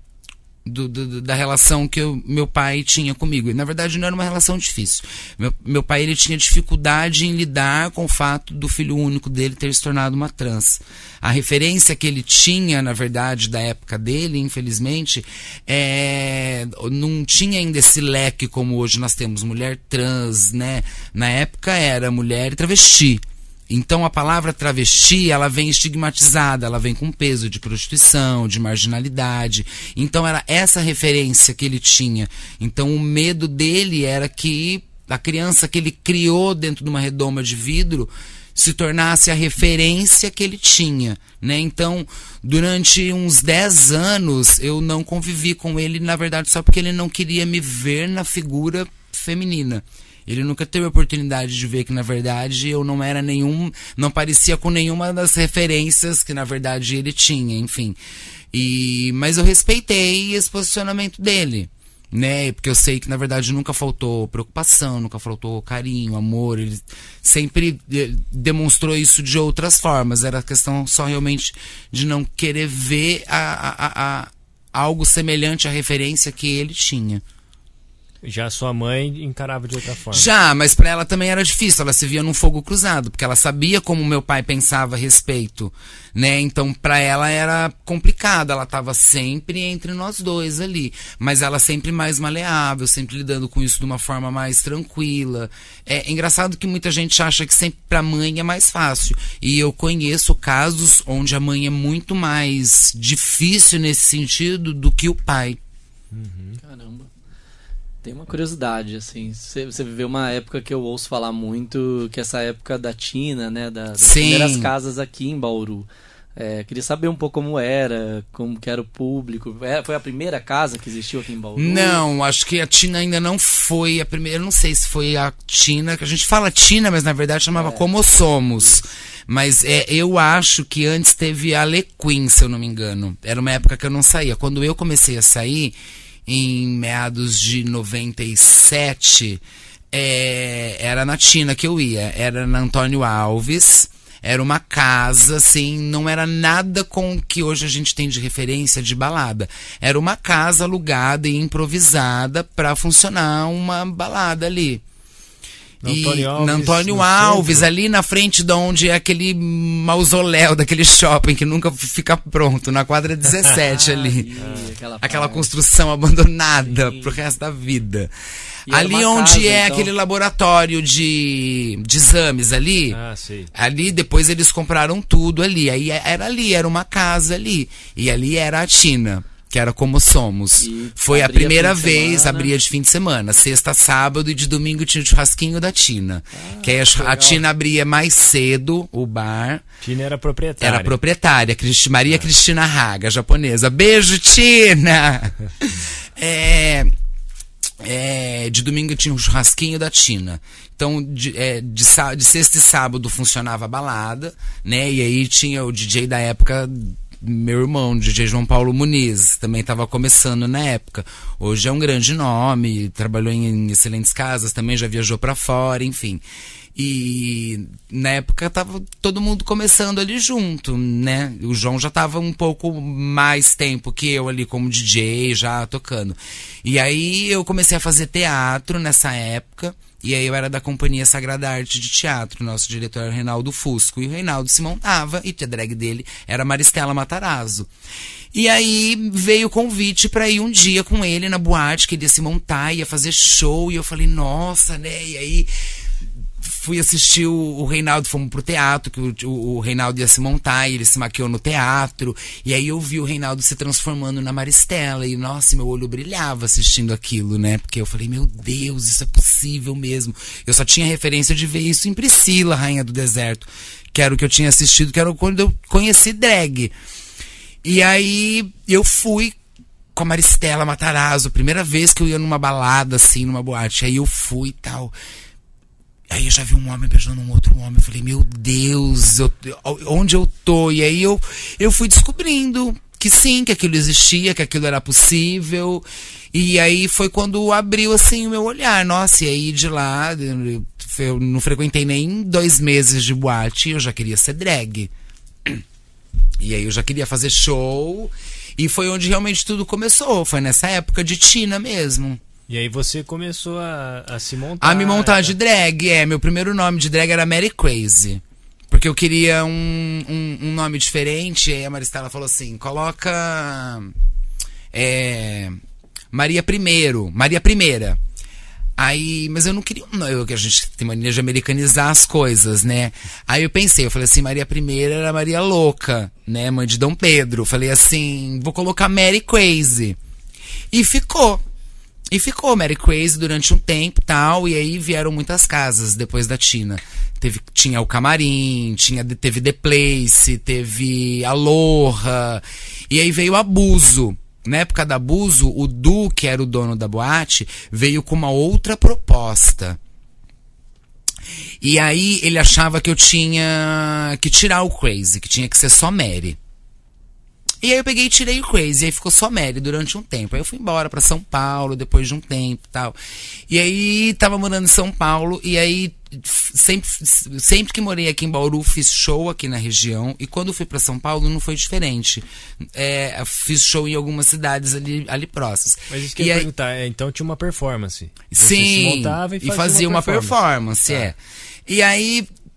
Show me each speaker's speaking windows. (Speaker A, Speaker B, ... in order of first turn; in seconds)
Speaker A: 0.6-58.0, 58.5-77.2, 80.1-105.6, 114.0-114.7, 121.6-139.4, 139.9-154.8, 155.8-164.3, 165.0-168.1, 168.7-173.0, 173.5-189.6, 190.6-196.9, 197.8-216.2, 216.7-237.7, 238.3-245.5, 246.4-266.7, 267.6-269.3, 269.9-274.9, 276.1-294.9, 296.4-302.2, 304.6-313.9, 314.7-315.6, 316.1-318.0, 318.8-330.0, 330.7-331.4, 332.1-349.8, 351.6-356.4, 357.6-362.9, 363.5-376.5, 378.3-382.3
Speaker B: 78.2-80.3, 106.1-106.6, 155.8-157.7, 164.4-164.7, 172.9-173.5, 189.8-190.9, 302.5-305.3, 375.9-380.4
Speaker C: 106.6-107.1, 108.0-122.0, 127.5-127.9, 163.5-165.5, 166.6-167.2, 168.7-169.9, 180.6-182.5, 186.3-187.4